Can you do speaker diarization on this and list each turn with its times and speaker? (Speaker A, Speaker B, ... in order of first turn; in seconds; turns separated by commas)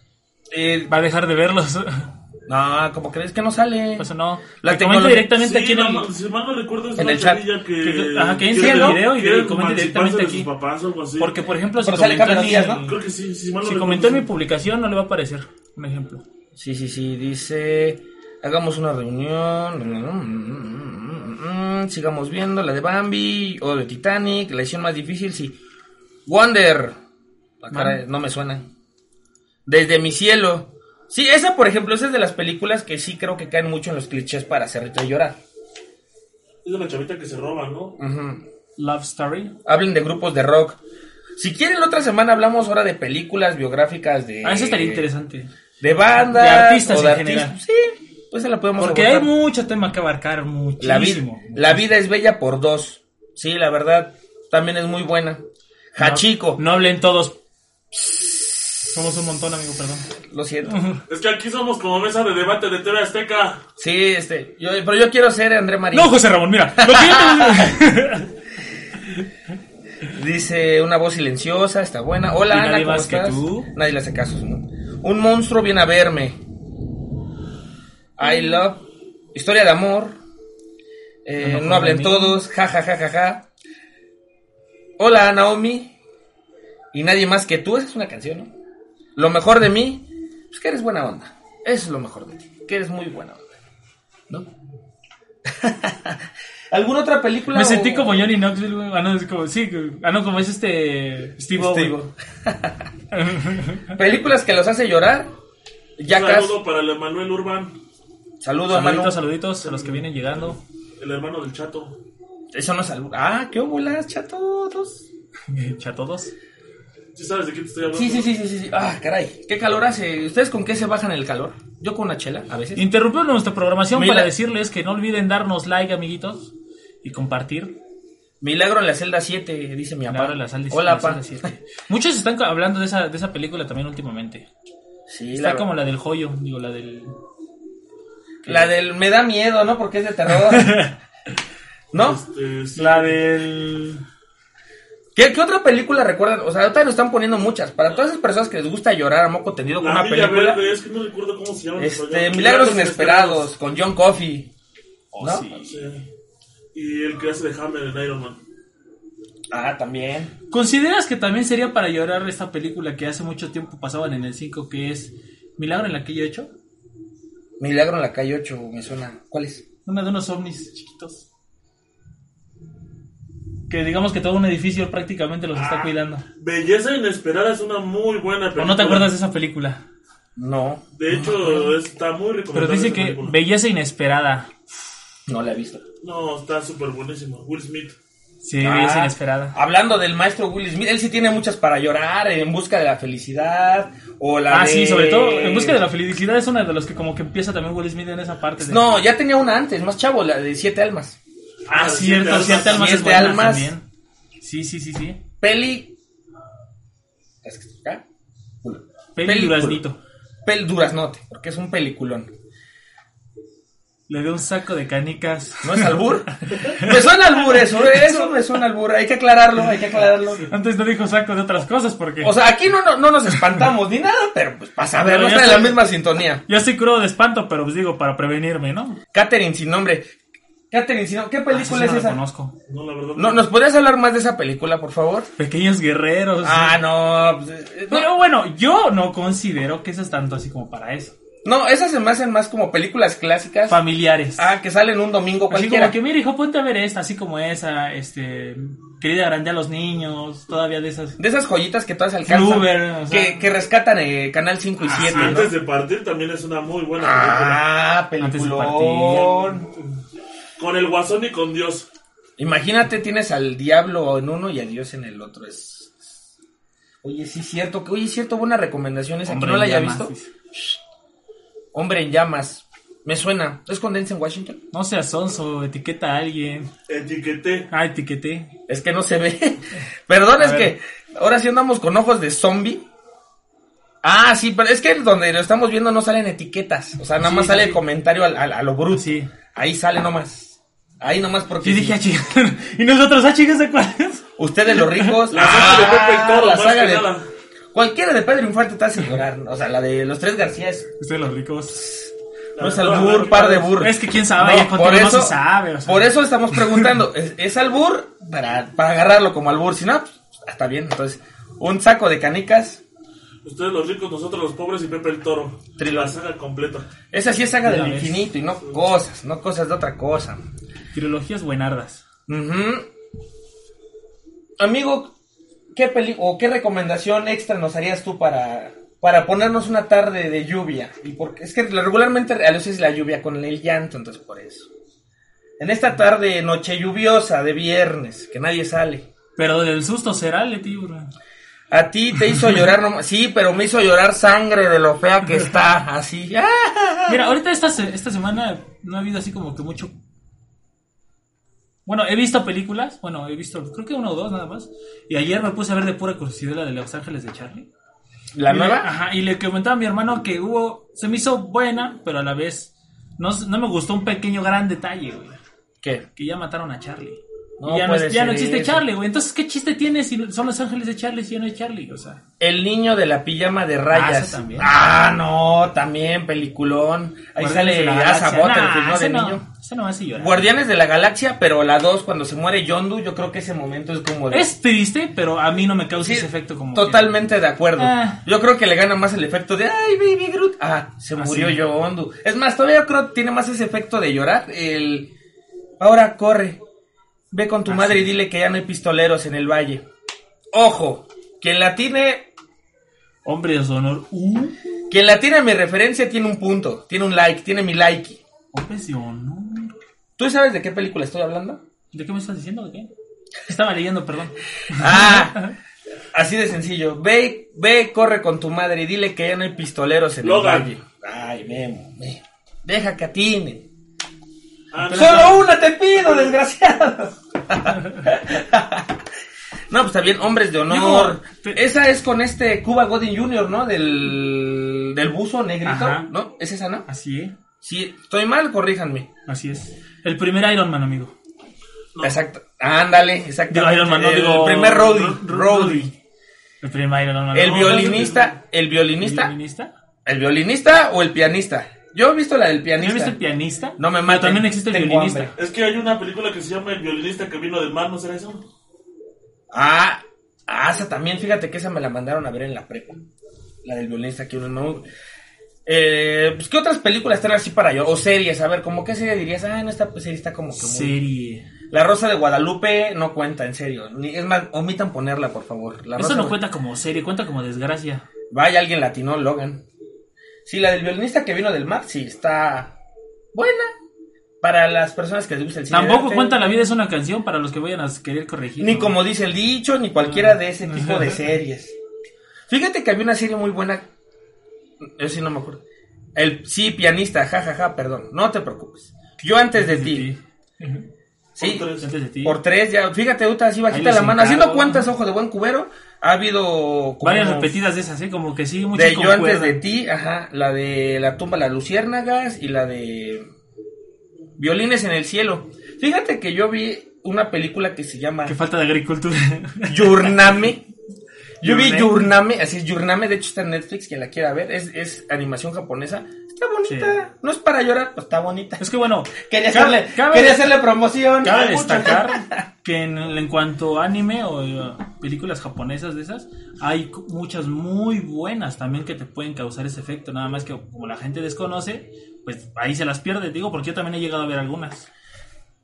Speaker A: 0.5-0.9, Speaker B: 0.9-2.1, Speaker A: 2.5-4.1, Speaker B: 4.0-6.1, Speaker A: 4.6-5.3, Speaker C: 5.3-11.4, Speaker A: 7.0-7.4, Speaker B: 7.8-10.5, Speaker A: 8.5-9.0, Speaker B: 11.2-12.9, Speaker A: 11.8-12.9, Speaker C: 12.8-14.3, Speaker B: 13.6-16.2, Speaker A: 16.6-25.5, Speaker A: 26.2-26.9, Speaker A: 27.6-28.7, Speaker B: 27.7-28.0, Speaker A: 29.6-35.4, Speaker C: 36.6-38.0, Speaker A: 38.0-38.4, Speaker B: 38.8-39.5, Speaker A: 39.6-40.8, Speaker A: 41.4-45.1, Speaker B: 44.4-45.5, Speaker A: 45.8-49.3, Speaker B: 46.2-47.6, Speaker B: 48.8-51.8, Speaker A: 50.8-55.4, Speaker A: 55.9-56.6, Speaker B: 56.0-57.4, Speaker A: 58.1-58.4, Speaker B: 58.9-60.1, Speaker A: 60.3-60.8, Speaker B: 60.6-61.0, Speaker C: 61.1-63.6, Speaker A: 63.8-66.2, Speaker B: 65.9-68.3, Speaker A: 66.8-67.8, Speaker A: 70.1-76.4, Speaker B: 72.5-73.7, Speaker A: 78.2-80.2, Speaker A: 81.2-83.5, Speaker B: 81.4-82.4, Speaker A: 85.0-85.9, Speaker A: 86.9-88.5, Speaker A: 89.2-93.4, Speaker A: 95.4-98.2, Speaker B: 97.5-102.0, Speaker A: 101.5-102.9, Speaker B: 103.1-104.0, Speaker A: 103.9-105.3, Speaker A: 106.0-106.6, Speaker C: 106.1-107.8, Speaker A: 108.4-109.2, Speaker B: 108.7-110.6, Speaker C: 109.6-112.0, Speaker A: 112.5-115.1, Speaker B: 115.5-116.3, Speaker C: 117.1-118.3, Speaker A: 117.9-122.8, Speaker B: 122.7-126.5, Speaker A: 123.9-124.3, Speaker B: 127.0-127.8, Speaker A: 128.4-131.5, Speaker B: 130.1-134.5, Speaker A: 135.1-135.7, Speaker B: 135.3-137.2, Speaker A: 138.4-140.9, Speaker B: 140.3-140.9, Speaker A: 141.9-142.2, Speaker C: 141.9-143.2, Speaker B: 142.8-144.0, Speaker A: 145.1-150.6, Speaker C: 149.8-153.5, Speaker A: 151.8-154.5, Speaker B: 155.1-155.8, Speaker A: 155.2-155.5, Speaker C: 155.6-156.0, Speaker C: 156.7-158.4, Speaker A: 159.5-160.3, Speaker B: 160.5-166.5, Speaker A: 167.6-169.6, Speaker B: 169.8-171.3, Speaker B: 173.7-176.2, Speaker C: 175.5-179.1, Speaker B: 178.6-179.8, Speaker A: 180.3-180.8, Speaker C: 180.9-183.3, Speaker B: 181.1-181.7, Speaker B: 182.5-184.6, Speaker A: 185.3-185.8, Speaker C: 186.0-187.9, Speaker B: 188.4-189.5, Speaker A: 188.6-195.8, Speaker B: 194.5-198.8, Speaker A: 198.6-201.2, Speaker C: 201.7-203.0, Speaker B: 201.7-203.8, Speaker A: 202.3-203.7, Speaker B: 204.4-205.2, Speaker A: 205.4-205.9, Speaker A: 207.4-208.0, Speaker A: 208.6-209.8, Speaker B: 209.2-210.0, Speaker A: 210.4-212.3, Speaker B: 214.1-217.0, Speaker A: 215.6-220.5, Speaker B: 217.7-218.1, Speaker B: 220.4-222.3, Speaker A: 222.2-226.4, Speaker B: 225.0-225.8, Speaker B: 226.4-229.0, Speaker A: 229.1-230.1, Speaker A: 230.7-232.2, Speaker B: 231.5-232.5, Speaker C: 232.7-233.4, Speaker A: 233.2-235.3, Speaker B: 235.4-236.8, Speaker A: 236.4-238.1, Speaker B: 237.9-241.1, Speaker A: 241.4-243.8, Speaker B: 243.7-244.5, Speaker A: 244.4-245.9, Speaker B: 245.5-251.2, Speaker A: 251.2-255.5, Speaker B: 252.2-253.4, Speaker B: 254.8-255.5, Speaker C: 254.9-257.6, Speaker A: 257.0-259.7, Speaker B: 258.2-259.5, Speaker C: 260.6-261.9, Speaker A: 262.4-266.1, Speaker A: 267.0-270.8, Speaker B: 269.2-270.3, Speaker A: 271.7-274.6, Speaker B: 274.7-276.7, Speaker C: 276.9-277.7, Speaker B: 277.7-278.5, Speaker A: 278.7-282.8, Speaker B: 280.4-280.7, Speaker A: 284.0-292.0, Speaker B: 287.2-287.8, Speaker B: 288.9-289.3, Speaker B: 291.6-295.2, Speaker A: 294.4-297.1, Speaker C: 295.3-297.3, Speaker A: 297.7-300.9, Speaker B: 301.0-301.9, Speaker A: 301.7-312.8, Speaker C: 302.6-303.8, Speaker B: 303.8-306.9, Speaker C: 313.4-316.9, Speaker A: 315.8-316.1, Speaker A: 317.1-320.4, Speaker B: 317.6-318.3, Speaker B: 320.9-322.0, Speaker A: 322.3-322.9, Speaker A: 324.6-325.1, Speaker A: 325.7-334.7, Speaker A: 335.6-339.1, Speaker B: 339.4-341.1, Speaker A: 341.7-347.3, Speaker B: 347.1-349.9, Speaker B: 351.9-357.7, Speaker A: 358.3-358.9, Speaker B: 358.5-365.4, Speaker B: 366.1-372.2, Speaker A: 367.6-368.8, Speaker A: 372.4-379.4, Speaker B: 373.9-374.7, Speaker B: 377.4-380.4, Speaker A: 380.2-384.5, Speaker B: 384.3-387.1, Speaker A: 386.0-395.1, Speaker B: 387.8-388.2, Speaker B: 391.2-391.6, Speaker A: 395.8-396.6, Speaker A: 397.3-399.8, Speaker B: 397.7-398.1, Speaker A: 400.5-402.3, Speaker B: 403.2-404.6, Speaker A: 404.9-408.2, Speaker B: 408.5-409.8, Speaker A: 410.2-411.6, Speaker B: 411.9-412.9, Speaker B: 413.4-415.5, Speaker A: 414.7-415.4, Speaker A: 416.1-423.7, Speaker C: 420.2-420.7, Speaker C: 424.7-425.4, Speaker B: 424.8-425.3, Speaker A: 424.9-429.0, Speaker A: 429.7-436.9, Speaker B: 430.7-431.6, Speaker B: 435.6-436.1, Speaker B: 436.9-437.3, Speaker A: 437.6-439.1, Speaker B: 439.2-441.1, Speaker A: 442.0-445.9, Speaker B: 443.5-445.9, Speaker B: 446.6-448.2, Speaker A: 447.3-449.3, Speaker C: 447.4-448.3, Speaker B: 449.0-449.7, Speaker A: 450.1-453.1, Speaker B: 452.8-455.3, Speaker A: 453.8-455.3, Speaker C: 455.4-458.4, Speaker A: 459.5-463.1, Speaker A: 463.6-464.9, Speaker A: 465.6-470.9, Speaker B: 470.6-471.5, Speaker A: 471.7-476.4, Speaker B: 476.0-478.0, Speaker A: 478.3-479.6, Speaker A: 480.4-482.7, Speaker A: 483.3-483.7, Speaker A: 484.4-486.4, Speaker B: 485.7-489.0, Speaker A: 488.6-491.7, Speaker B: 490.0-491.2, Speaker A: 492.5-493.9, Speaker A: 494.8-495.6, Speaker A: 496.1-500.1, Speaker B: 499.5-500.9, Speaker A: 501.4-501.7, Speaker C: 501.4-501.9, Speaker B: 501.8-502.4, Speaker A: 502.2-507.5, Speaker B: 503.7-504.9, Speaker B: 507.0-509.6, Speaker A: 508.7-513.2, Speaker A: 514.4-518.3, Speaker B: 518.2-520.3, Speaker A: 519.7-520.6, Speaker A: 521.4-532.4, Speaker B: 521.4-522.0, Speaker B: 526.6-527.0, Speaker B: 528.6-530.5, Speaker B: 531.2-544.9, Speaker C: 531.3-532.0